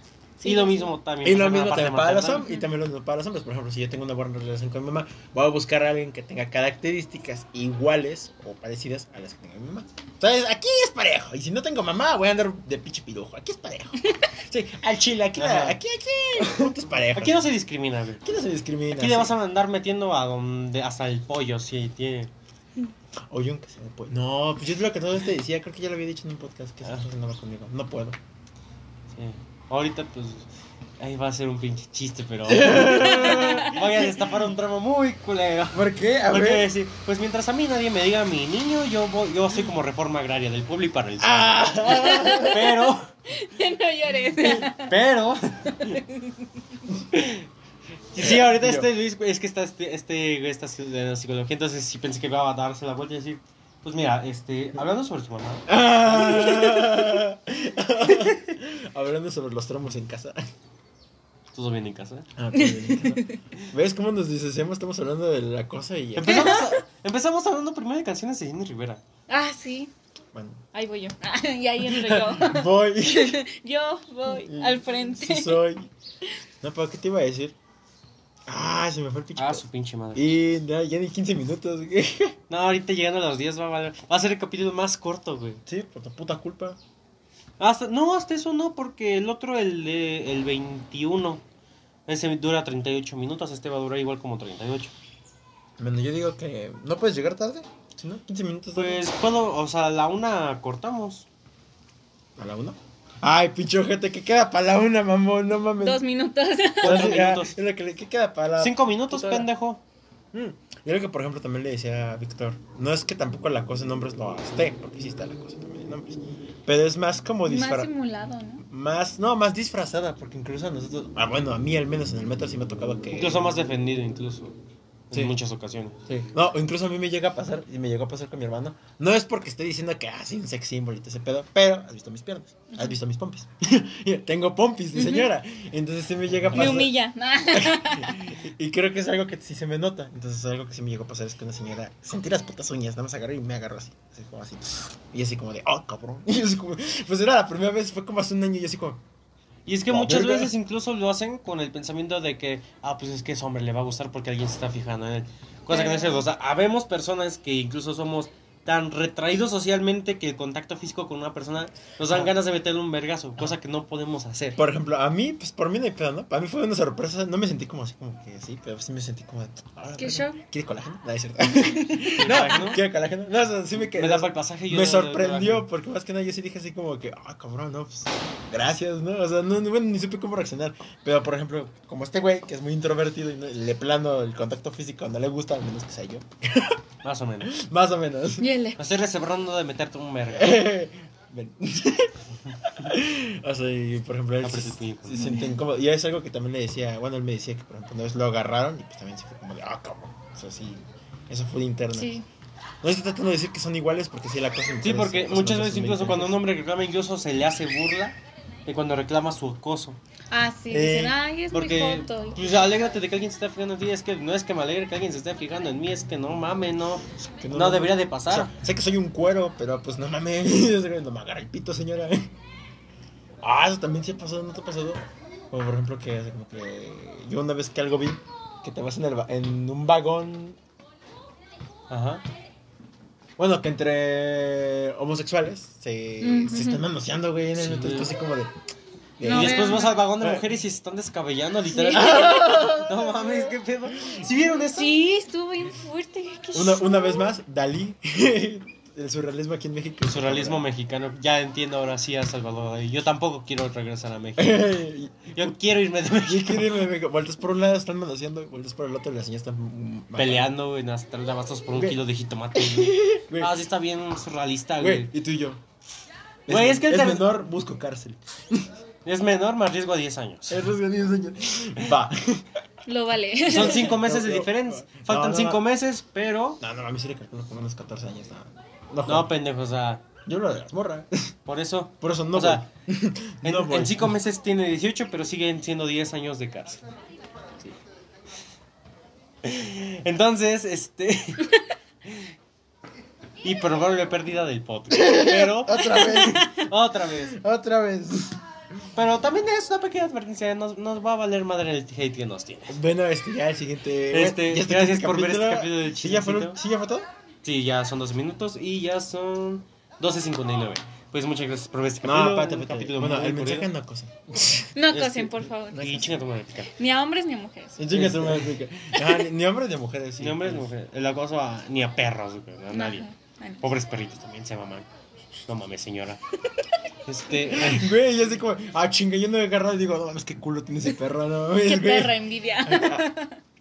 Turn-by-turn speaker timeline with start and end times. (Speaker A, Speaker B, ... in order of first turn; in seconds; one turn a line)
Speaker A: 0.4-0.9
Speaker B: 0.4-2.5
Speaker C: 1.2-17.5
Speaker B: 15.3-15.8
Speaker B: 16.4-18.2
Speaker C: 18.2-19.3
Speaker B: 18.9-22.3
Speaker C: 23.3-28.2
Speaker B: 29.1-43.1
Speaker C: 32.5-33.8
Speaker A: 32.9-33.8
Speaker C: 35.7-36.7
Speaker C: 41.2-42.7
Speaker A: 41.9-44.9
Speaker B: 44.6-46.0
Speaker A: 45.7-46.4
Speaker B: 47.1-47.5
Speaker B: 48.1-57.0
Speaker C: 48.2-48.9
Speaker C: 55.7-60.4
Speaker B: 61.5-62.3
Speaker C: 62.4-66.6
Speaker A: 62.5-63.4
Speaker B: 66.1-69.0
Speaker A: 66.2-66.8
Speaker A: 69.3-69.9
Speaker C: 70.3-70.6
Speaker A: 70.7-75.7
Speaker C: 71.8-73.4
Speaker C: 74.3-75.9
Speaker C: 76.6-77.5
Speaker C: 78.5-82.4
Speaker B: 79.4-80.3
Speaker B: 82.5-85.6
Speaker C: 85.7-86.8
Speaker B: 87.6-91.4
Speaker B: 92.1-94.9
Speaker C: 95.8-99.0
Speaker B: 98.7-101.3
Speaker C: 102.4-106.0
Speaker A: 105.8-107.1
Speaker B: 106.8-107.6
Speaker C: 106.8-109.5
Speaker B: 108.6-109.8
Speaker C: 110.3-117.9
Speaker A: 117.5-118.6
Speaker C: 118.6-123.5
Speaker B: 123.1-124.6
Speaker B: 125.1-126.0
Speaker C: 126.0-136.9
Speaker A: 134.9-135.3
Speaker A: 136.5-138.3
Speaker C: 137.5-149.0
Speaker B: 149.7-164.6
Speaker C: 149.9-150.5
Speaker A: 155.7-156.2
Speaker C: 162.1-162.3
Speaker C: 164.6-186.8
Speaker A: 169.9-170.4
Speaker B: 172.0-172.8
Speaker B: 173.8-175.7
Speaker B: 187.0-187.5
Speaker C: 187.4-188.5
Speaker A: 188.4-188.8
Speaker B: 188.8-190.6
Speaker C: 190.3-202.1
Speaker B: 194.4-195.3
Speaker A: 195.2-195.5
Speaker A: 201.9-202.2
Speaker C: 202.8-206.4
Speaker B: 204.8-210.0
Speaker A: 210.3-212.4
Speaker C: 210.7-211.2
Speaker B: 211.5-218.5
Speaker C: 217.2-222.3
Speaker C: 223.4-230.6
Speaker B: 231.9-232.2
Speaker C: 233.4-238.5
Speaker A: 236.2-236.8
Speaker B: 237.6-238.1
Speaker C: 239.2-240.4
Speaker A: 239.2-240.1
Speaker B: 239.2-245.0
Speaker A: 241.7-242.8
Speaker C: 241.9-243.2
Speaker C: 244.0-244.3
Speaker A: 244.7-247.3
Speaker C: 246.5-250.7
Speaker B: 250.0-254.8
Speaker C: 254.4-255.5
Speaker B: 255.3-256.8
Speaker C: 256.1-260.5
Speaker B: 260.1-265.1
Speaker C: 261.7-262.0
Speaker C: 262.5-263.6
Speaker C: 264.8-265.6
Speaker C: 266.5-268.8
Speaker B: 266.5-267.4
Speaker B: 269.0-270.6
Speaker C: 270.5-272.5
Speaker A: 272.9-273.9
Speaker B: 273.4-276.6
Speaker C: 273.5-275.6
Speaker C: 276.6-279.3
Speaker B: 279.1-280.0
Speaker C: 280.2-281.3
Speaker B: 281.5-282.7
Speaker C: 282.0-284.1
Speaker B: 283.4-286.8
Speaker B: 289.4-292.3
Speaker B: 293.4-297.4
Speaker C: 294.9-298.4
Speaker A: 296.0-296.6
Speaker B: 298.9-302.8
Speaker C: 302.7-307.1
Speaker B: 304.1-306.6
Speaker B: 307.4-313.7
Speaker C: 312.0-314.7
Speaker A: 314.7-316.0
Speaker B: 314.9-316.7
Speaker C: 315.7-316.1
Speaker A: 316.8-317.9
Speaker C: 317.8-320.7
Speaker B: 317.9-318.5
Speaker A: 318.9-319.2
Speaker B: 320.2-323.1
Speaker A: 322.7-323.6
Speaker B: 323.6-324.9
Speaker B: 325.5-326.2
Speaker B: 327.0-327.9
Speaker C: 327.5-333.0
Speaker A: 331.6-333.4